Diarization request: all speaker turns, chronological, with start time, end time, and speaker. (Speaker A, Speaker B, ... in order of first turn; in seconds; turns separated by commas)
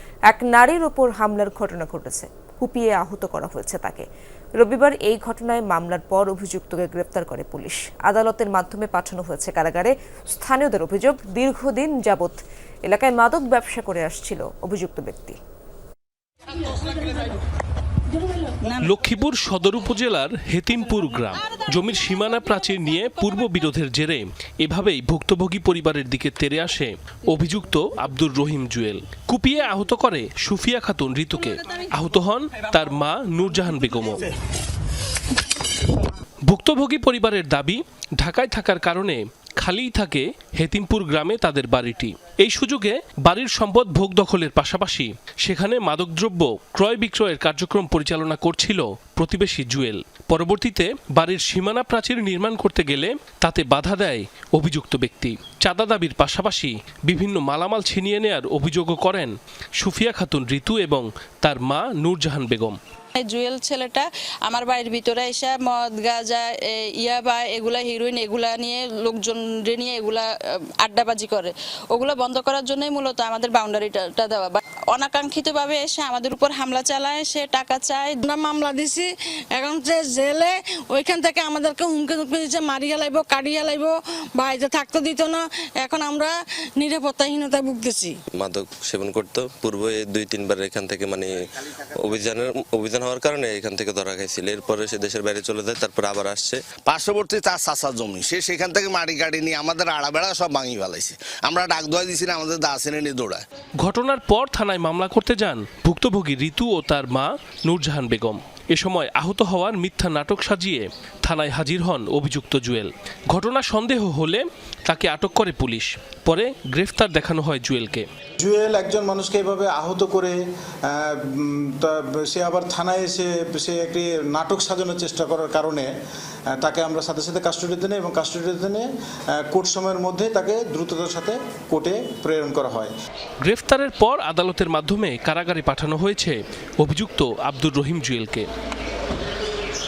Speaker A: 0.3-4.1, Speaker A: 4.6-15.4, Speaker B: 18.8-34.2, Speaker B: 36.5-62.8, Speaker C: 63.1-78.2, Speaker D: 78.2-88.2, Speaker E: 88.4-91.3, Speaker E: 91.9-96.7, Speaker F: 96.8-103.5, Speaker B: 103.8-118.1, Speaker G: 118.4-120.4, Speaker G: 120.9-125.9, Speaker G: 126.6-128.9, Speaker G: 129.5-132.9, Speaker B: 133.4-138.5